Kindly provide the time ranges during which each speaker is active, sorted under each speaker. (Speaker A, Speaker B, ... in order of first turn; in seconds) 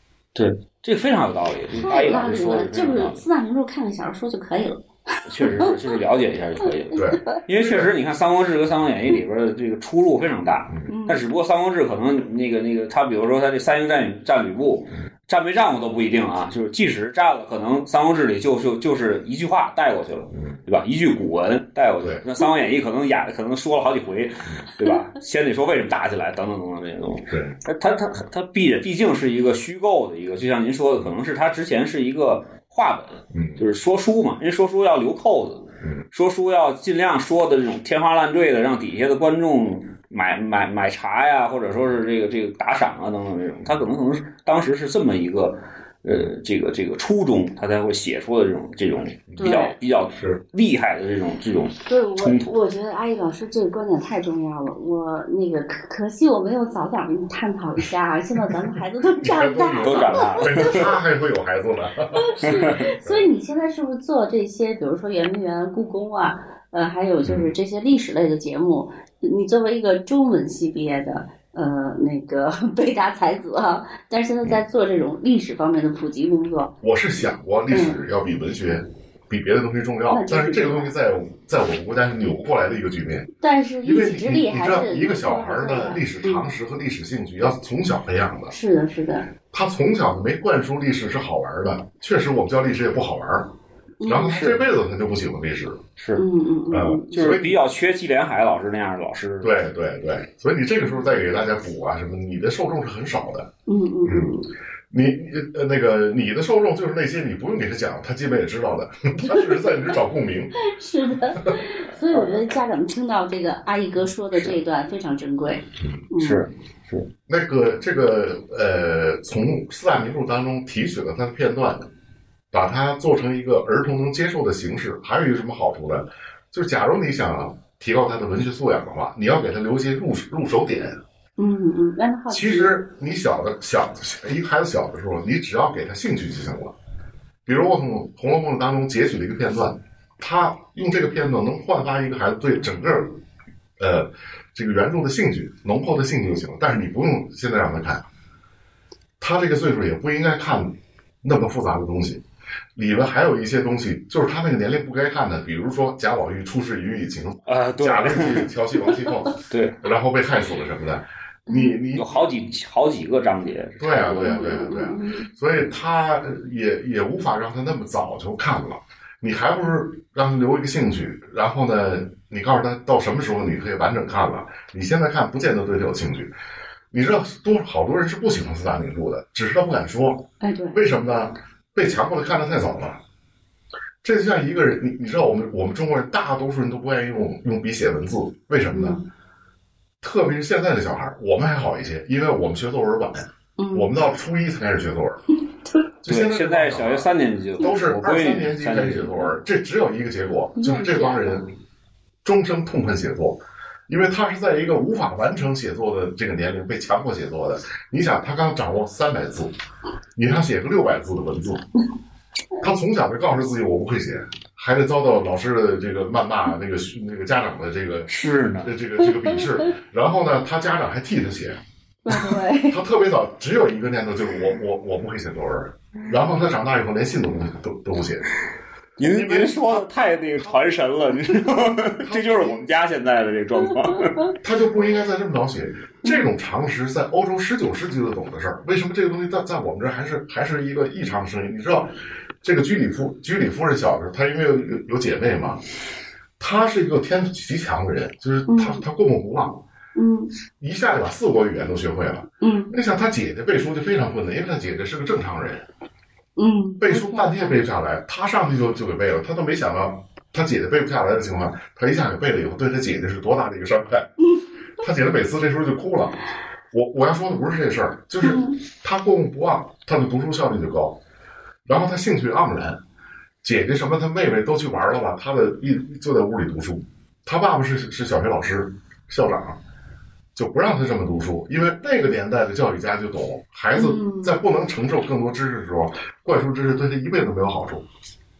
Speaker A: 0.3-3.2, 5.3-52.5, 59.8-60.9, 62.4-62.8, 94.2-94.6, 96.0-96.2, 97.1-99.5, 116.2-117.1, 157.5-158.5, 159.4-159.8, 161.9-164.4, 196.1-199.3, 218.1-218.7, 229.0-234.3
Speaker B: 1.8-5.8, 7.0-7.4, 10.9-11.2, 49.4-49.7, 51.9-60.8, 62.1-76.7, 77.7-78.0, 80.1-80.9, 83.4-86.5, 88.5-89.3, 94.0-94.4, 96.2-97.1, 103.7-104.5, 110.6-116.4, 131.4-132.7, 161.5-161.8, 164.1-165.3, 180.4-180.8, 188.7-189.0, 193.6-193.9, 200.6-201.4, 222.0-222.8, 248.5-248.8, 249.9-250.3, 252.4-252.7, 256.4-257.6, 268.2-268.6, 283.7-284.4
Speaker C: 6.9-7.9, 27.3-27.6, 33.3-33.6, 59.1-63.3, 76.8-83.3, 83.8-88.5, 89.5-93.5, 94.0-95.8, 96.7-97.6, 99.4-103.5, 104.0-104.3, 104.9-110.5, 117.3-121.9, 122.5-131.0, 132.3-136.7, 137.4-143.2, 143.8-148.0, 149.2-152.2, 152.8-162.1, 163.8-176.3, 176.9-183.0, 184.0-189.0, 190.0-195.2, 196.0-201.5, 202.2-209.5, 210.2-211.7, 212.6-221.6, 222.7-228.3, 229.0-229.9, 232.0-232.7, 234.4-245.6, 246.4-249.6, 250.6-255.6, 256.8-264.1, 264.8-271.0, 271.6-272.8, 273.4-279.6, 280.3-287.9